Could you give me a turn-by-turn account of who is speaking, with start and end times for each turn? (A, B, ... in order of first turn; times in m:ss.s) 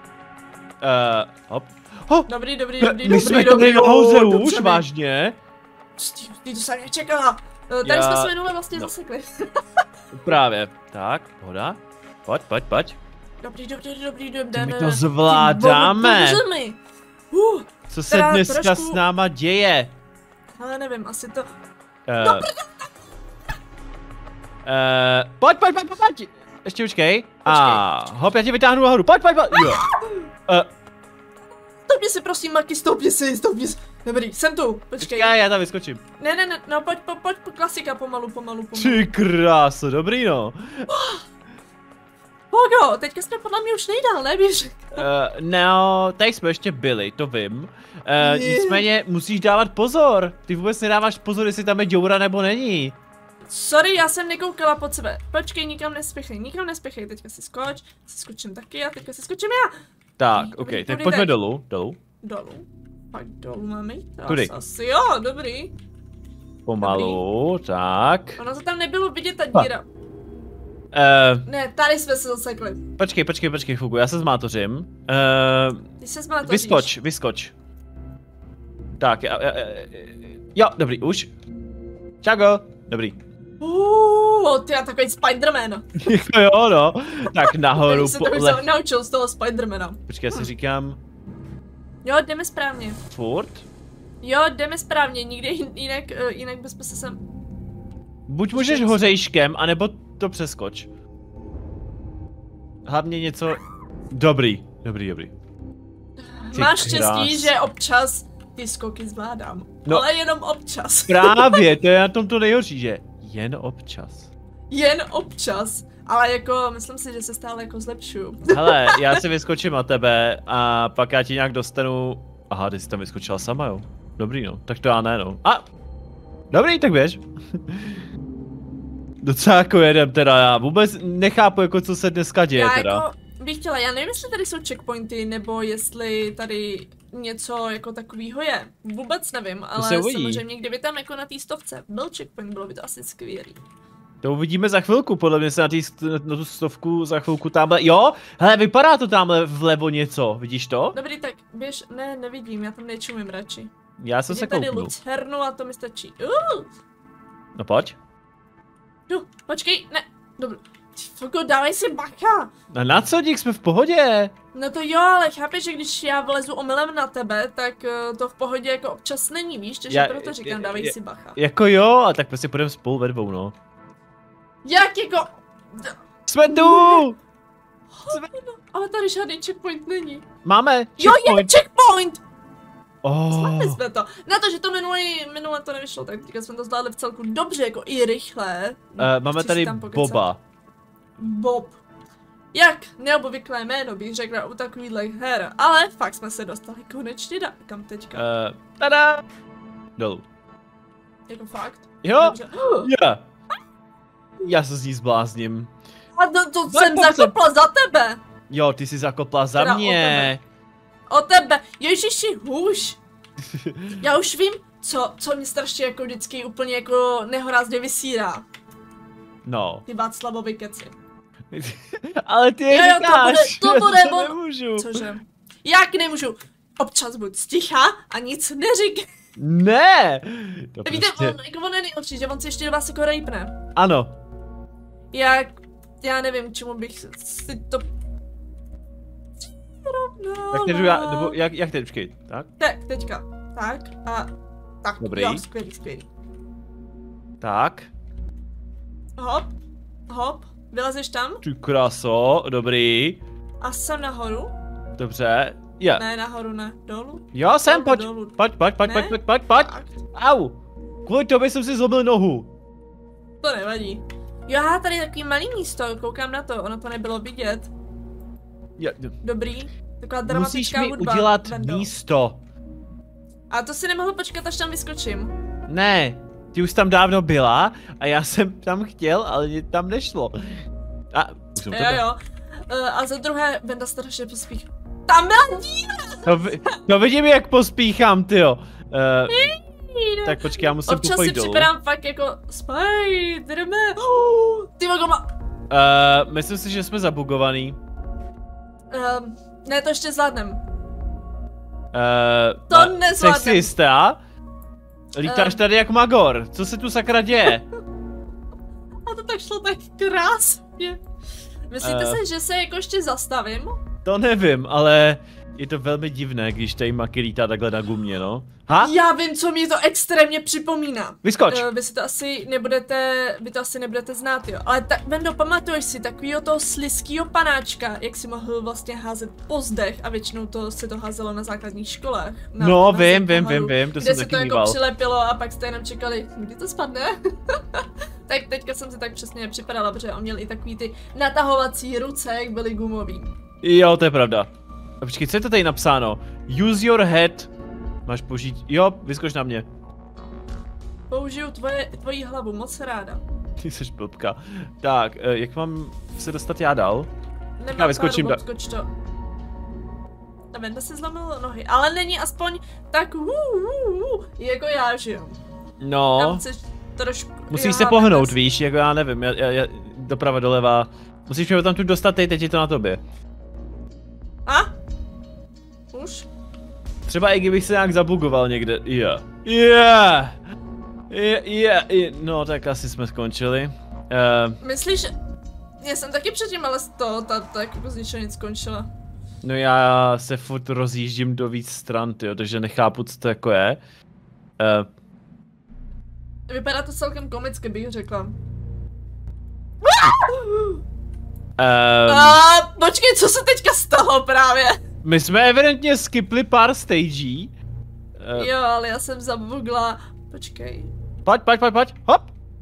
0:00.8-0:02.3 A
0:02.3-0:04.8 B
0:02.8-0:05.4 A
0:06.0-0:09.8 B
0:07.8-0:08.9 A
0:10.1-0:13.0 A
0:13.4-0:16.8 B
0:14.5-0:16.4 A
0:17.3-0:19.0 B
0:17.9-0:19.9 A
0:20.6-0:21.4 B
0:22.1-0:22.5 A
0:22.2-0:22.9 B
0:24.6-0:29.8 A
0:27.4-0:27.8 B
0:29.5-0:30.2 B
0:31.9-0:35.3 B
0:35.0-0:36.0 A
0:36.2-0:39.1 B
0:38.7-0:40.8 A
0:40.9-0:41.2 B
0:42.5-0:45.0 B
0:44.9-0:53.0 A
0:48.2-0:48.8 B
0:53.5-0:59.7 B
1:00.2-1:02.0 A
1:00.3-1:01.3 B
1:02.2-1:05.7 B
1:04.3-1:04.5 A
1:06.6-1:08.4 A
1:06.8-1:07.2 B
1:08.4-1:09.9 B
1:10.9-1:11.5 A
1:11.4-1:12.8 B
1:13.0-1:15.9 A
1:16.0-1:16.9 B
1:16.4-1:17.5 A
1:19.0-1:21.3 A
1:22.2-1:23.2 A
1:23.6-1:25.9 B
1:26.0-1:28.6 A
1:27.5-1:30.5 B
1:30.1-1:31.0 A
1:32.0-1:33.0 B
1:33.1-1:33.6 A
1:34.2-1:37.2 B
1:38.3-1:40.9 A
1:38.5-1:39.2 B
1:42.8-1:43.6 A
1:44.1-1:45.3 A
1:46.2-1:51.6 B
1:46.5-1:47.5 A
1:51.1-1:54.3 A
1:54.7-1:59.2 B
1:58.5-2:05.7 A
2:06.5-2:08.0 A
2:09.2-2:13.0 A
2:12.5-2:23.6 B
2:19.8-2:20.4 A
2:24.2-2:31.0 A
2:30.9-2:33.7 B
2:34.0-2:34.9 A
2:34.3-2:36.7 B
2:37.6-2:38.0 A
2:39.1-2:42.5 B
2:42.7-2:44.3 A
2:44.5-2:51.4 B
2:49.9-2:53.5 A
2:54.6-2:57.0 B
2:56.3-2:57.2 A
2:57.9-3:00.2 B
3:00.4-3:01.5 A
3:01.0-3:02.2 B
3:03.0-3:03.8 A
3:03.3-3:10.3 B
3:09.0-3:10.4 A
3:11.2-3:11.8 B
3:12.5-3:18.2 B
3:18.2-3:19.2 A
3:20.0-3:20.2 A
3:21.3-3:22.9 B
3:22.0-3:23.2 A
3:24.4-3:25.7 A
3:26.2-3:28.2 B
3:26.7-3:27.3 A
3:28.5-3:30.4 A
3:29.6-3:30.3 B
3:31.1-3:33.0 B
3:33.5-3:34.0 A
3:34.0-3:38.4 B
3:39.4-3:39.8 A
3:39.9-3:40.9 B
3:41.5-3:45.0 A
3:42.7-3:49.0 B
3:49.4-3:51.4 A
3:50.8-3:53.5 B
3:53.8-3:54.2 A
3:55.1-3:57.8 B
3:59.4-4:01.4 B
4:00.5-4:02.5 A
4:02.6-4:04.3 B
4:04.8-4:06.1 B
4:05.0-4:05.4 A
4:07.4-4:07.9 A
4:09.2-4:09.5 B
4:10.1-4:11.4 B
4:11.4-4:13.2 A
4:13.6-4:14.5 B
4:15.0-4:16.0 A
4:15.9-4:20.0 B
4:17.3-4:22.5 A
4:23.4-4:27.7 B
4:28.8-4:29.1 A
4:29.2-4:31.9 B
4:30.3-4:32.4 A
4:33.5-4:35.3 B
4:35.7-4:42.0 A
4:41.7-4:46.7 B
4:46.2-4:49.5 A
4:49.3-4:55.3 B
4:50.2-4:51.7 A
4:55.7-4:57.8 A
4:58.9-5:00.6 B
5:01.9-5:04.2 A
5:02.7-5:03.7 B
5:05.1-5:07.6 A
5:05.2-5:05.6 B
5:09.0-5:11.0 B
5:11.7-5:13.8 B
5:11.8-5:12.2 A
5:14.0-5:18.9 A
5:18.8-5:43.3 B
5:21.2-5:21.7 A
5:32.6-5:34.8 A
5:43.6-5:44.5 A
5:45.0-5:47.5 A
5:48.1-5:49.6 A
5:51.1-5:53.2 B
5:53.6-5:57.1 A
5:57.6-5:58.9 B
5:57.8-5:58.4 A
6:00.5-6:05.4 B
6:05.8-6:06.4 A
6:06.2-6:08.4 B
6:07.5-6:13.0 A
6:15.9-6:16.3 B
6:17.0-6:20.4 A
6:21.1-6:24.6 A
6:24.6-6:25.1 B
6:25.8-6:28.9 B
6:29.4-6:33.8 A
6:34.6-6:34.9 A
6:36.5-6:38.4 B
6:39.8-6:40.8 B
6:41.6-6:42.4 A
6:42.1-6:44.8 B
6:45.0-6:47.5 A
6:48.2-6:48.5 A
6:48.3-6:50.9 B
6:51.2-6:52.3 A